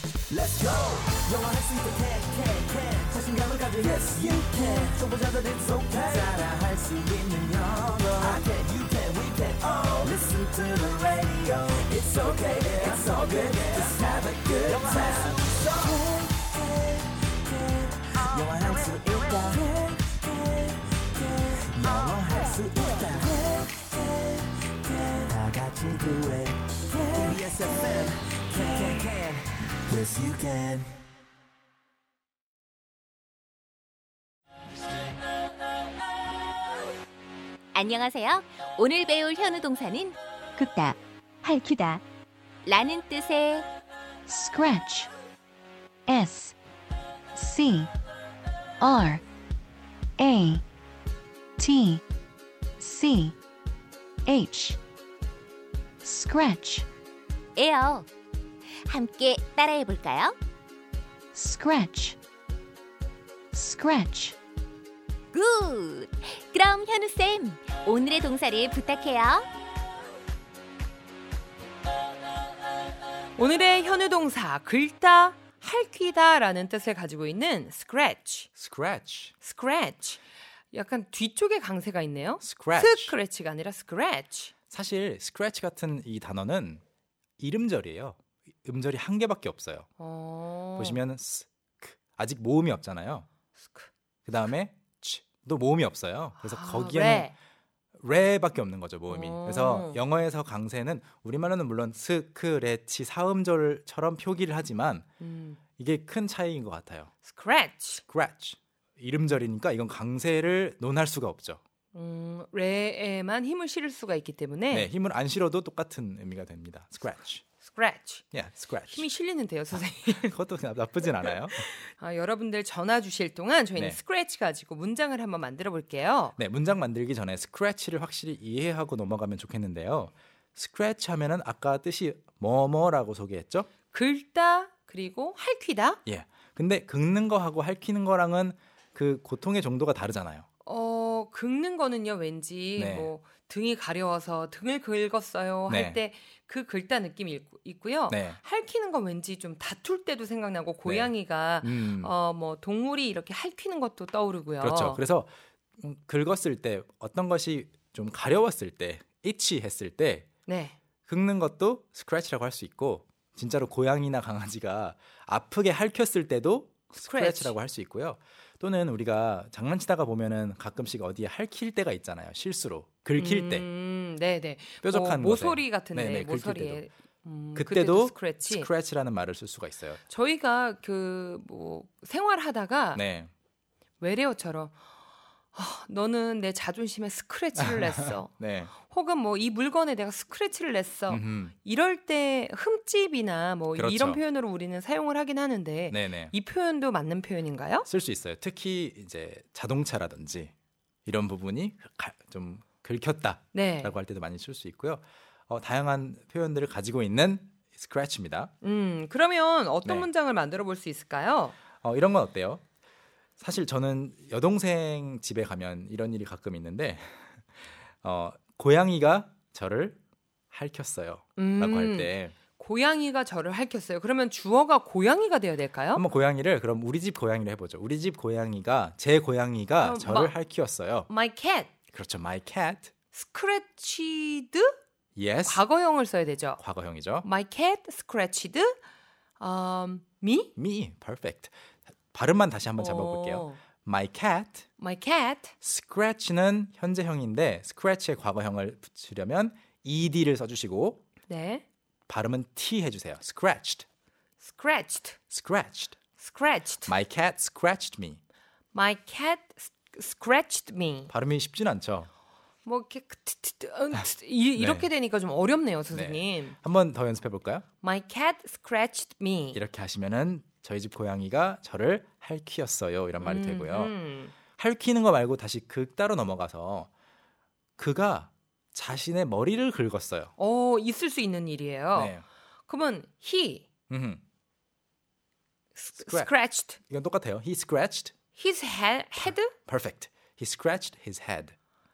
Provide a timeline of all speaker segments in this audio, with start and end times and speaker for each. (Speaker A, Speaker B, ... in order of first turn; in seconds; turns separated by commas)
Speaker A: 0.3-17.0, Speaker A: 17.5-24.0, Speaker A: 24.9-30.9, Speaker B: 37.7-42.0, Speaker B: 42.6-43.7, Speaker C: 44.3-45.1, Speaker C: 46.1-46.5, Speaker C: 47.4-47.9, Speaker C: 48.8-49.2, Speaker C: 50.2-50.6, Speaker C: 51.6-52.0, Speaker C: 52.8-53.4, Speaker C: 54.3-54.8, Speaker C: 56.0-56.9, Speaker B: 57.6-58.1, Speaker B: 58.9-60.4, Speaker C: 61.3-62.2, Speaker C: 63.5-64.3, Speaker B: 65.3-69.5, Speaker D: 73.4-78.5, Speaker E: 78.6-79.3, Speaker D: 79.4-80.2, Speaker D: 80.7-84.5, Speaker E: 82.4-83.2, Speaker E: 84.7-86.8, Speaker E: 87.4-89.9, Speaker D: 90.0-91.0, Speaker E: 90.8-93.3, Speaker E: 94.3-97.3, Speaker D: 96.4-97.3, Speaker E: 98.0-105.0, Speaker D: 99.1-100.0, Speaker D: 105.2-105.6, Speaker E: 105.8-107.1, Speaker D: 107.2-108.0, Speaker E: 108.1-111.6, Speaker D: 111.9-114.9, Speaker E: 114.7-117.4, Speaker D: 117.6-118.2, Speaker E: 118.3-119.1, Speaker D: 118.9-120.4, Speaker E: 119.7-121.7, Speaker D: 121.1-126.3, Speaker E: 126.4-133.7, Speaker D: 133.9-136.0, Speaker E: 136.1-140.5, Speaker D: 140.6-155.0, Speaker E: 142.8-143.1, Speaker E: 145.7-146.0, Speaker E: 148.1-148.4, Speaker E: 150.8-152.1, Speaker E: 154.6-160.3, Speaker D: 160.5-160.8, Speaker E: 161.1-173.7, Speaker D: 167.0-167.6, Speaker D: 173.2-178.7, Speaker E: 174.8-176.8, Speaker E: 177.6-180.0, Speaker D: 180.1-183.0, Speaker E: 182.9-183.3, Speaker D: 184.0-184.8, Speaker D: 185.5-197.9, Speaker E: 187.6-188.7, Speaker E: 191.1-191.6, Speaker E: 193.8-194.2, Speaker E: 195.9-196.3, Speaker E: 197.9-200.5, Speaker E: 201.1-208.5, Speaker D: 203.5-204.0, Speaker D: 208.6-211.6, Speaker E: 211.8-212.6, Speaker E: 213.4-217.4, Speaker E: 218.0-220.0, Speaker E: 220.5-222.3, Speaker D: 221.4-226.0, Speaker E: 225.9-231.1, Speaker D: 229.8-230.3, Speaker D: 231.1-231.7, Speaker E: 231.9-232.9, Speaker D: 233.1-234.8, Speaker E: 235.2-235.6, Speaker D: 235.5-236.6, Speaker E: 236.6-237.3, Speaker D: 237.2-238.8, Speaker D: 239.4-240.5, Speaker E: 240.6-241.5, Speaker E: 242.1-244.7, Speaker D: 242.8-243.6, Speaker D: 244.8-245.5, Speaker E: 245.6-251.0, Speaker D: 251.3-251.6, Speaker E: 252.1-253.8, Speaker D: 254.4-255.2, Speaker E: 255.3-256.0, Speaker D: 256.2-256.9, Speaker E: 256.9-258.2, Speaker D: 258.7-261.1, Speaker E: 261.1-262.1, Speaker D: 262.6-266.6, Speaker E: 264.6-264.9, Speaker E: 265.9-267.6, Speaker D: 267.8-269.6, Speaker E: 269.5-273.9, Speaker D: 273.2-274.3, Speaker E: 274.6-276.9, Speaker E: 277.8-280.3, Speaker D: 280.4-282.2, Speaker E: 281.9-282.2, Speaker D: 282.7-283.7, Speaker E: 283.9-284.2, Speaker D: 285.8-286.8, Speaker E: 286.0-288.1, Speaker D: 288.4-289.5, Speaker E: 289.3-291.6